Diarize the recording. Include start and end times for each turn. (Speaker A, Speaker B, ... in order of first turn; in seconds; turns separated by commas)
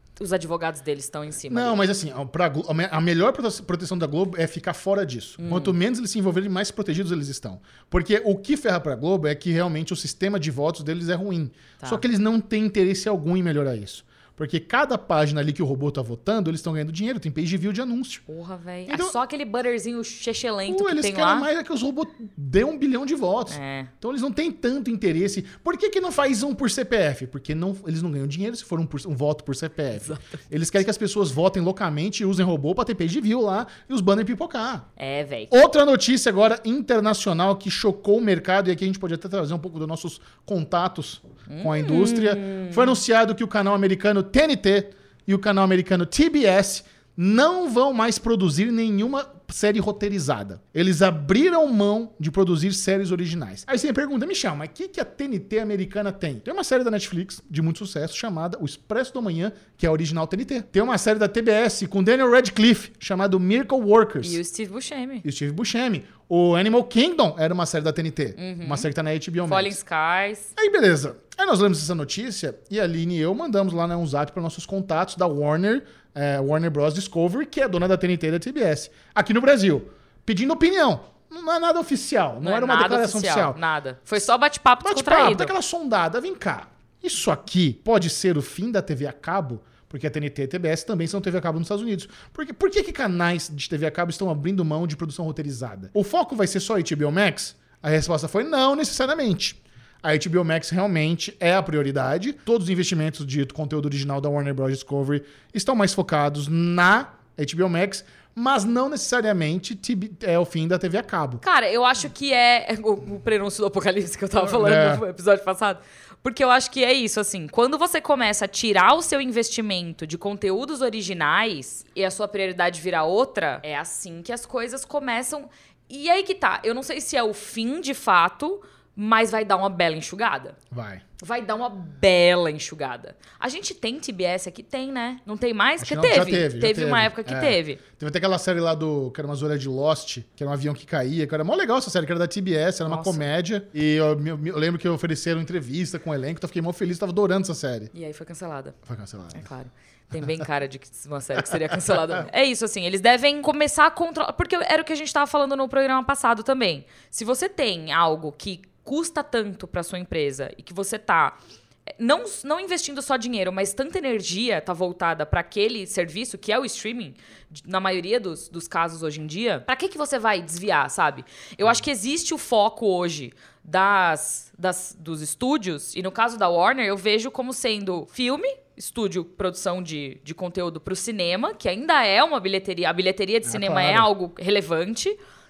Speaker A: 0.2-1.8, Speaker B: 1.5-18.2, Speaker A: 5.4-5.7, Speaker A: 18.3-21.5, Speaker B: 18.9-19.1, Speaker B: 20.7-34.9, Speaker A: 23.5-23.9, Speaker A: 30.0-30.4, Speaker A: 35.0-35.5, Speaker B: 35.5-64.4, Speaker A: 41.5-43.0, Speaker A: 64.2-65.2, Speaker B: 65.2-69.8, Speaker A: 68.4-68.9, Speaker A: 69.5-70.5, Speaker B: 70.5-83.6, Speaker A: 82.4-85.5, Speaker B: 84.8-111.4, Speaker A: 111.4-130.6, Speaker B: 114.4-115.0, Speaker B: 130.7-131.0, Speaker A: 131.2-137.8, Speaker B: 135.8-147.9, Speaker A: 142.9-143.2, Speaker A: 147.9-148.8, Speaker B: 148.8-149.5, Speaker A: 149.3-161.4, Speaker A: 162.0-185.2, Speaker B: 183.4-184.1